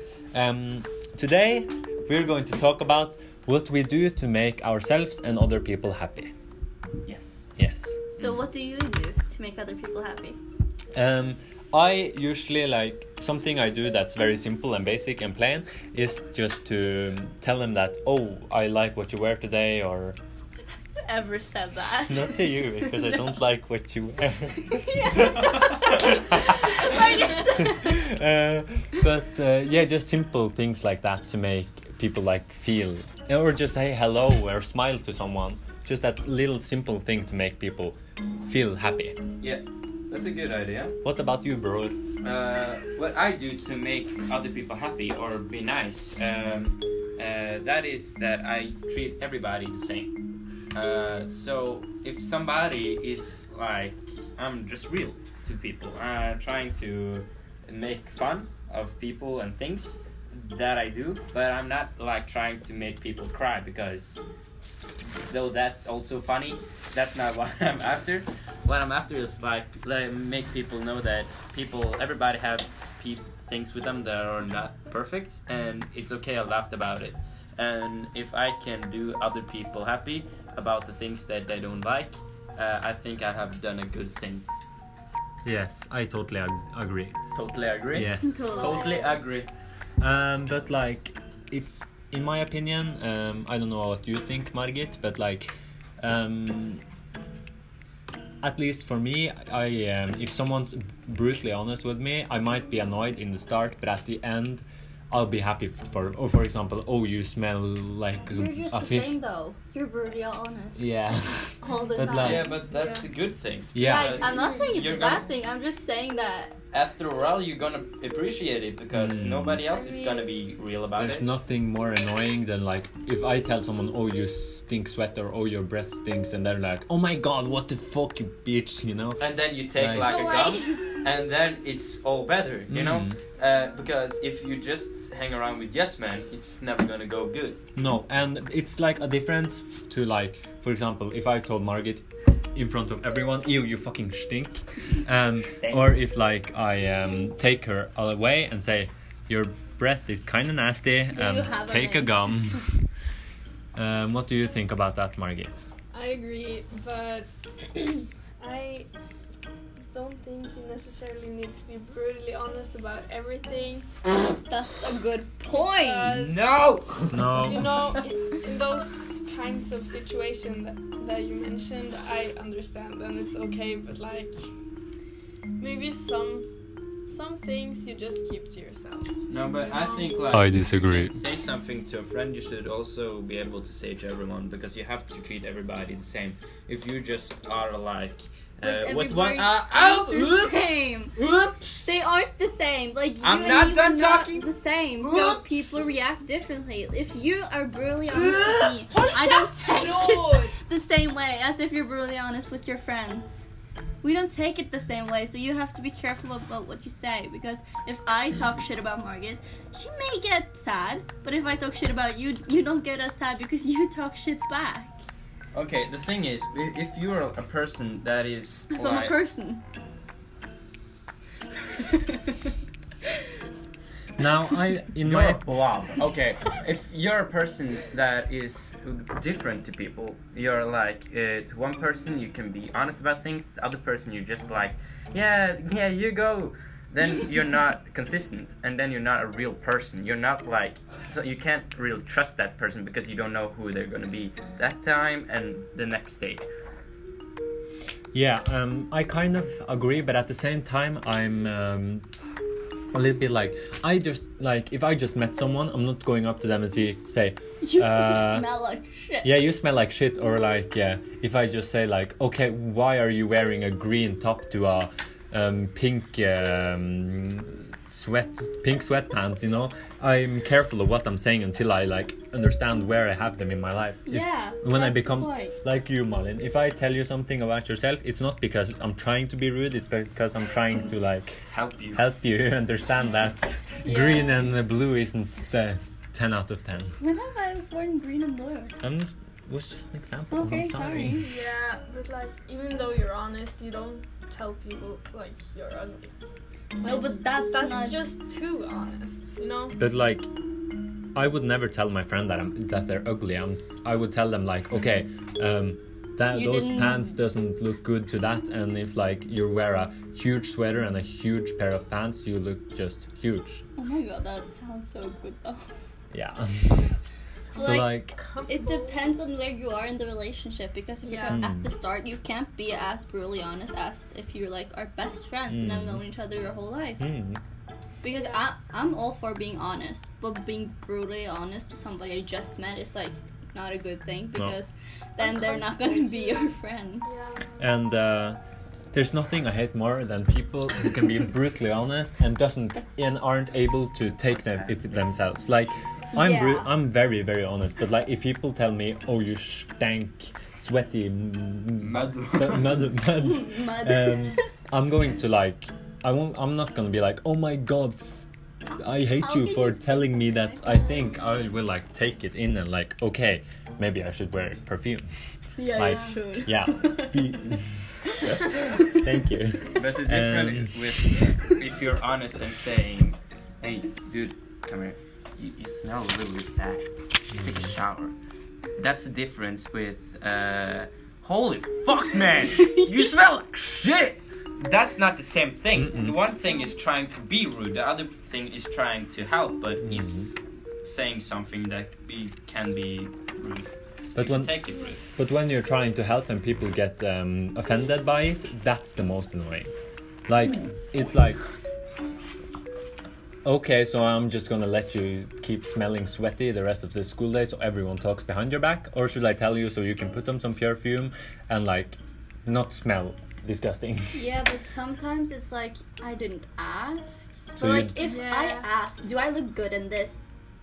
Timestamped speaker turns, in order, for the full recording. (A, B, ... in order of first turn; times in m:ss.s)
0:00.3-0:06.3 A
0:07.0-0:07.4 B
0:07.6-0:08.0 A
0:08.2-0:10.4 C
0:10.9-0:20.2 A
0:21.0-0:23.3 C
0:22.1-0:39.2 A
0:24.8-0:27.9 C
0:39.4-0:41.0 B
0:41.0-0:42.0 A
0:42.2-0:50.1 B
0:50.7-1:04.2 B
1:05.3-1:24.5 B
1:25.4-1:27.2 A
1:27.4-1:29.5 B
1:27.9-1:28.8 A
1:28.2-1:29.2 C
1:30.0-1:36.8 A
1:38.4-1:49.2 A
1:48.3-1:50.9 C
1:50.8-1:52.5 A
1:51.6-1:52.5 C
1:52.0-1:55.3 B
1:52.2-1:53.1 D
1:53.7-1:54.2 A
1:53.8-1:56.6 C
1:54.2-1:54.8 D
1:56.7-2:01.3 B
1:58.9-1:59.6 A
1:59.7-2:00.4 D
2:01.0-2:10.2 A
2:09.2-2:17.6 B
2:10.1-2:11.0 C
2:12.7-2:13.2 A
2:17.8-2:32.6 A
2:25.6-2:25.9 B
2:31.1-2:32.6 C
2:33.8-2:35.7 A
2:35.9-2:38.9 D
2:39.9-2:43.9 D
2:44.5-2:46.1 C
2:45.5-2:46.5 D
2:46.0-2:47.3 B
2:47.1-2:47.9 A
2:47.4-2:54.4 D
2:55.6-2:56.5 D
2:57.1-3:00.2 D
2:59.3-3:11.9 B
3:00.3-3:01.2 A
3:08.6-3:11.2 C
3:11.8-3:23.4 C
3:13.2-3:14.5 B
3:15.0-3:15.8 B
3:18.1-3:20.6 D
3:24.0-3:34.9 C
3:35.5-3:39.2 B
3:38.7-3:39.6 C
3:41.8-3:42.2 C
3:44.2-3:45.4 A
3:45.0-4:06.5 B
4:08.1-4:12.1 A
4:12.9-4:18.5 A
4:17.6-4:19.3 C
4:19.2-4:41.4 A
4:34.1-4:35.5 C
4:41.5-4:42.0 B
4:42.0-4:47.0 A
4:43.8-4:44.5 C
4:47.0-4:48.8 C
4:48.8-4:51.2 A
4:50.3-4:51.3 C
4:51.2-4:56.1 D
4:56.8-4:59.8 D
4:56.8-4:58.1 C
4:59.8-5:00.3 A
5:01.2-5:13.6 A
5:06.3-5:07.2 C
5:13.8-5:15.7 C
5:16.1-5:16.9 A
5:17.5-5:19.2 D
5:17.6-5:17.9 C
5:17.6-5:18.2 A
5:18.5-5:27.1 C
5:21.0-5:21.4 D
5:21.3-5:21.7 A
5:25.5-5:26.0 A
5:27.0-5:27.4 A
5:28.0-5:37.1 C
5:28.1-5:28.4 D
5:35.2-5:37.4 D
5:37.6-5:38.4 A
5:38.9-6:05.1 A
5:44.2-5:45.3 B
5:46.2-5:46.7 C
5:51.8-5:52.8 B
5:53.2-5:54.4 C
5:59.1-6:01.0 C
6:05.6-6:08.9 C
6:05.7-6:07.8 A
6:05.8-6:06.2 D
6:08.9-6:11.3 A
6:09.8-6:16.9 B
6:17.4-6:18.2 B
6:18.8-6:30.3 B
6:25.8-6:26.2 A
6:29.8-6:30.3 A
6:30.8-6:35.0 B
6:34.2-6:34.6 A
6:35.2-6:39.7 A
6:40.3-6:41.4 A
6:43.4-6:54.2 A
6:54.1-7:00.2 C
6:57.6-6:58.0 A
6:58.0-6:58.7 D